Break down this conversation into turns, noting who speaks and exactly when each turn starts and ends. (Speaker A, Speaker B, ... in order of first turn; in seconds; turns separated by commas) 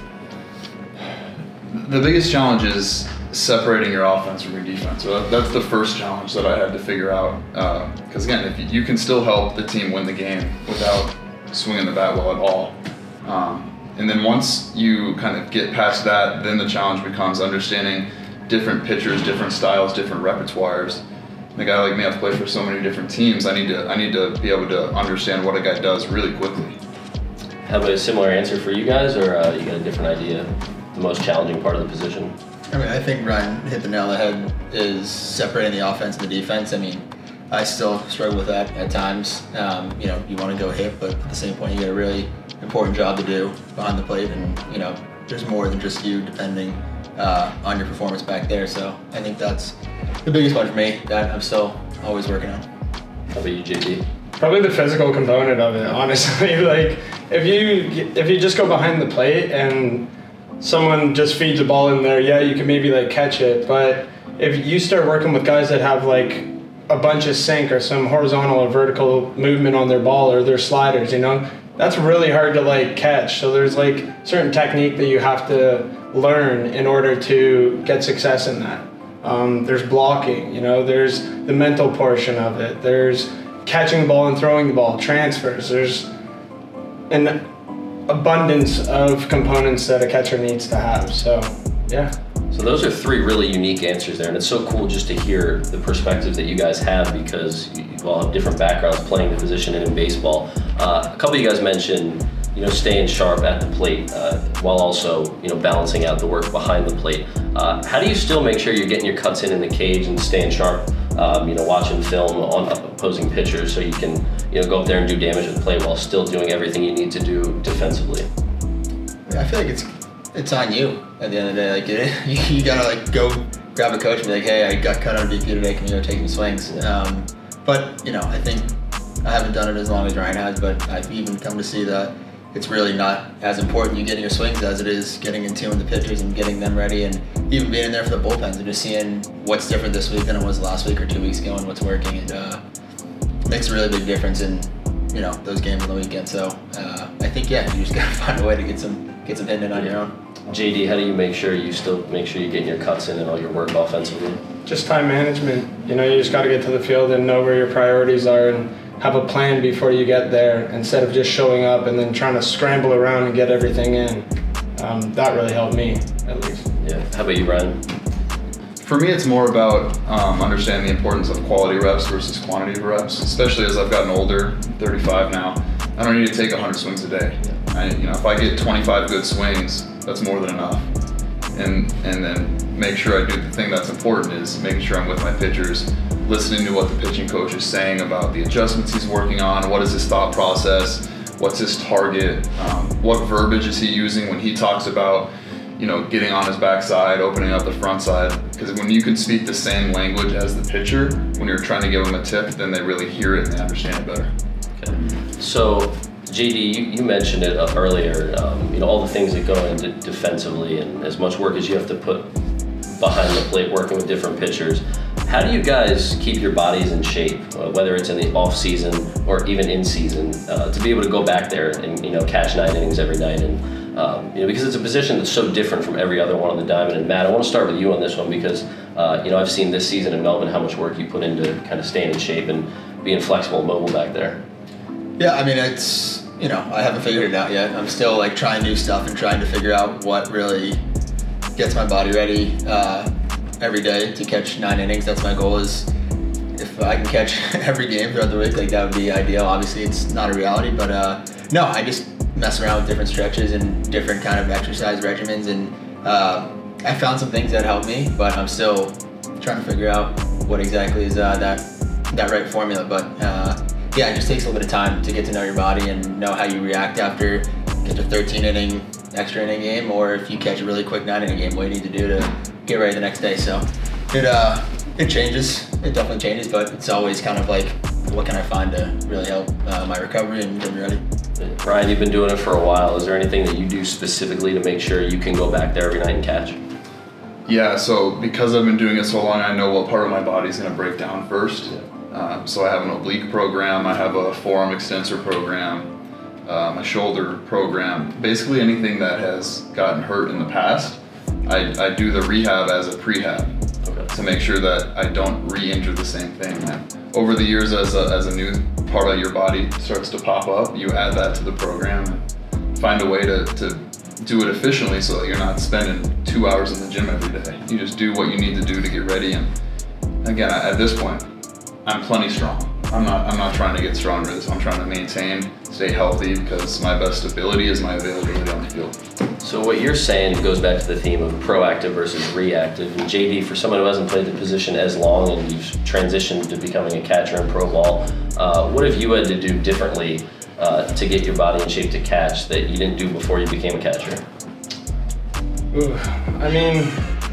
Speaker A: 1.7-21.0, Speaker A: 21.5-26.8, Speaker B: 27.6-32.3, Speaker C: 32.7-52.6, Speaker B: 53.3-54.0, Speaker D: 54.4-60.1, Speaker D: 60.6-86.1, Speaker D: 87.1-87.4, Speaker D: 88.1-92.1, Speaker B: 92.5-118.3, Speaker C: 119.3-128.7, Speaker C: 129.2-142.6, Speaker C: 143.5-150.1, Speaker B: 150.5-154.4, Speaker D: 154.7-164.2, Speaker D: 164.8-166.7, Speaker B: 166.8-167.8, Speaker A: 168.8-180.9, Speaker A: 181.5-204.3, Speaker B: 204.8-212.3, Speaker B: 212.9-234.4, Speaker C: 235.2-240.8, Speaker C: 241.6-243.1, Speaker C: 243.6-245.9, Speaker C: 246.5-281.0, Speaker B: 281.4-286.6, Speaker A: 287.5-295.9, Speaker A: 296.4-303.5, Speaker A: 304.1-312.2, Speaker A: 312.8-319.5, Speaker A: 320.2-321.2, Speaker A: 321.8-328.9, Speaker B: 329.4-344.2, Speaker D: 345.7-347.0